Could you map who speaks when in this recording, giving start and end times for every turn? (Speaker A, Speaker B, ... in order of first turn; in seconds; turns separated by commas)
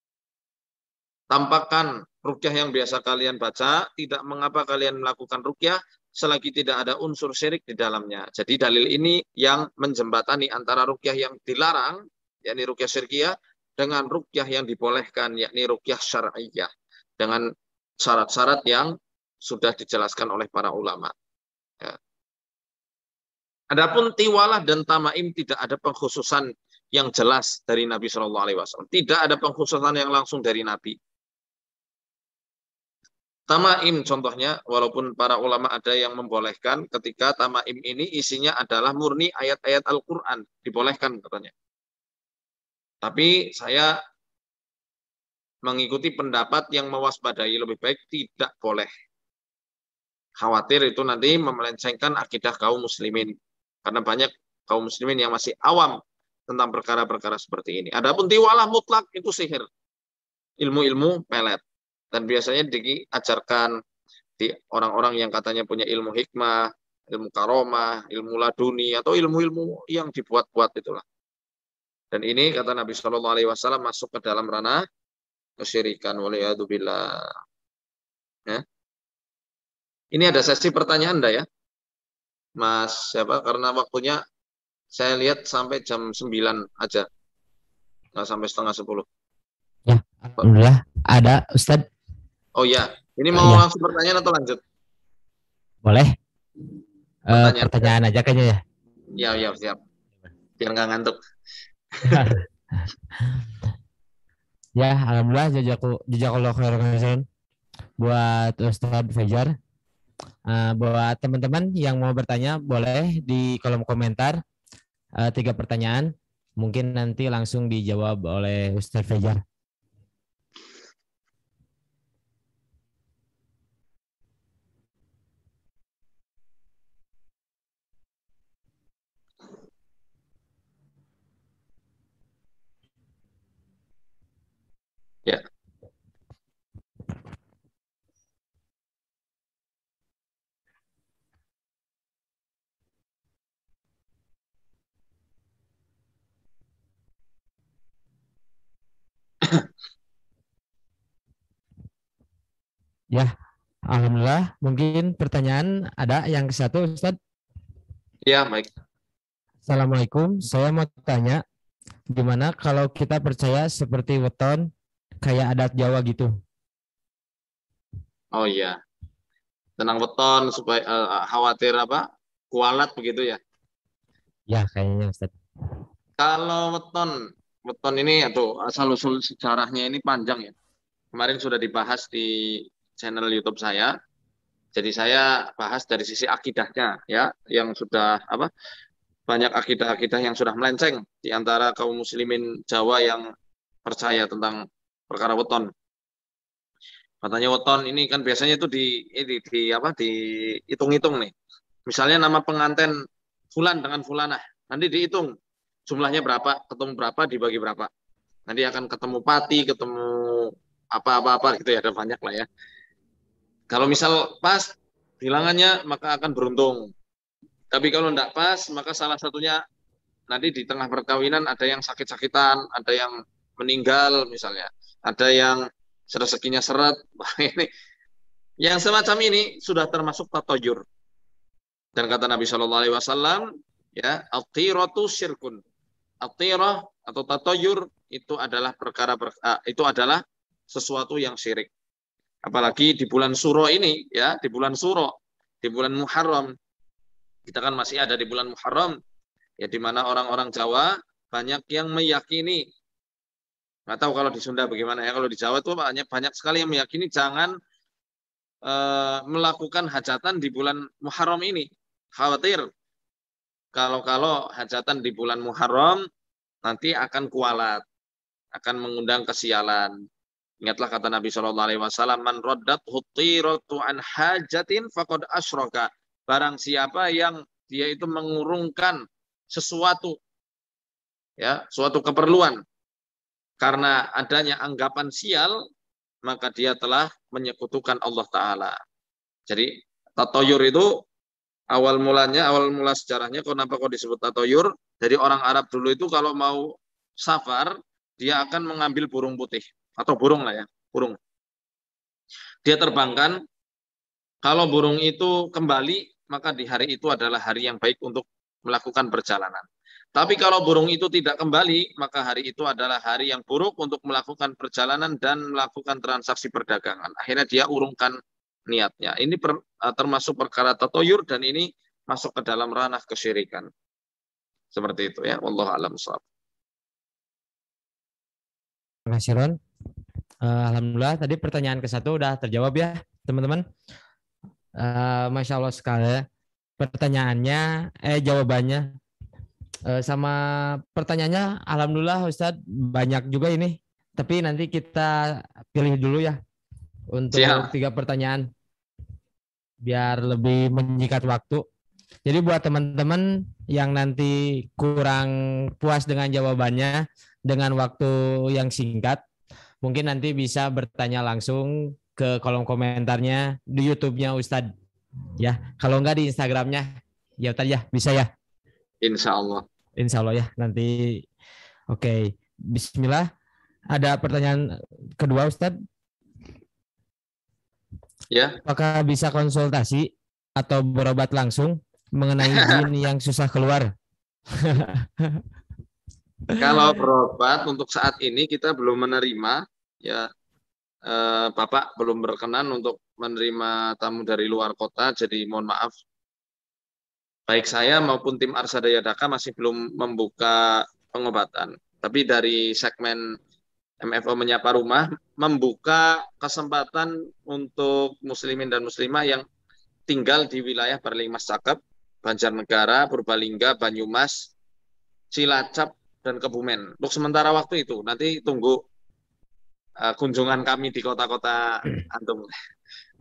Speaker A: 1.3-17.5, Speaker A: 18.0-21.1, Speaker A: 23.7-31.0, Speaker A: 33.5-41.5, Speaker A: 43.0-43.9, Speaker A: 45.6-48.9, Speaker A: 50.4-59.7, Speaker A: 60.6-61.6, Speaker A: 62.1-63.7, Speaker A: 64.4-71.0, Speaker A: 72.1-74.8, Speaker A: 75.6-77.3, Speaker A: 80.1-81.5, Speaker A: 82.6-84.2, Speaker A: 84.9-87.1, Speaker A: 88.2-89.0, Speaker B: 89.9-91.9, Speaker A: 92.6-94.6, Speaker B: 93.3-93.7, Speaker B: 95.8-96.1, Speaker B: 97.3-98.6, Speaker A: 97.3-97.9, Speaker A: 99.2-99.8, Speaker A: 100.6-101.2, Speaker A: 102.0-102.3, Speaker B: 102.0-102.4, Speaker B: 104.8-107.3, Speaker B: 108.0-109.5, Speaker B: 110.5-114.4, Speaker B: 115.2-119.4, Speaker B: 153.9-157.2, Speaker A: 158.3-158.7, Speaker B: 159.7-161.4, Speaker B: 162.1-164.7, Speaker B: 165.2-166.3, Speaker A: 168.3-168.8, Speaker A: 169.8-173.4, Speaker B: 174.5-175.3, Speaker A: 176.2-177.2, Speaker A: 177.7-180.5, Speaker A: 181.1-183.9, Speaker A: 184.8-188.5, Speaker A: 189.3-193.2, Speaker A: 193.8-195.7, Speaker A: 197.2-201.3, Speaker A: 201.9-202.9, Speaker A: 203.5-205.3, Speaker A: 205.9-207.9, Speaker A: 208.5-212.5, Speaker A: 213.7-216.9, Speaker A: 217.7-219.6, Speaker A: 220.3-227.7, Speaker A: 228.6-230.8, Speaker A: 232.0-235.6, Speaker A: 236.2-241.7, Speaker A: 242.4-246.5, Speaker A: 247.5-249.0, Speaker A: 249.6-252.7, Speaker A: 253.9-257.5, Speaker A: 258.7-262.7, Speaker A: 263.8-266.0, Speaker A: 266.6-267.8, Speaker A: 268.6-269.9, Speaker A: 270.6-280.2, Speaker A: 281.4-282.6, Speaker A: 283.6-285.6, Speaker A: 286.3-288.8, Speaker A: 289.5-290.9, Speaker A: 291.7-301.2, Speaker A: 302.6-303.4, Speaker A: 304.4-318.2, Speaker A: 318.7-323.7, Speaker A: 324.7-326.2, Speaker B: 329.1-329.6, Speaker B: 330.4-333.6, Speaker B: 334.8-336.3, Speaker B: 336.8-338.9, Speaker B: 339.9-346.4, Speaker B: 347.1-348.5, Speaker A: 347.3-347.7, Speaker B: 349.8-351.6, Speaker B: 352.2-359.2, Speaker B: 359.8-364.7, Speaker B: 365.4-368.3, Speaker A: 369.0-369.6, Speaker B: 370.0-371.3, Speaker B: 371.9-373.3, Speaker B: 373.9-375.8, Speaker A: 378.3-378.6, Speaker B: 378.6-383.9, Speaker A: 382.4-382.8, Speaker B: 384.6-385.4, Speaker B: 386.5-387.0, Speaker A: 386.6-390.3, Speaker A: 391.1-395.9, Speaker A: 397.5-403.2, Speaker A: 404.0-409.4, Speaker A: 410.1-414.5, Speaker A: 415.3-418.8, Speaker A: 420.0-422.5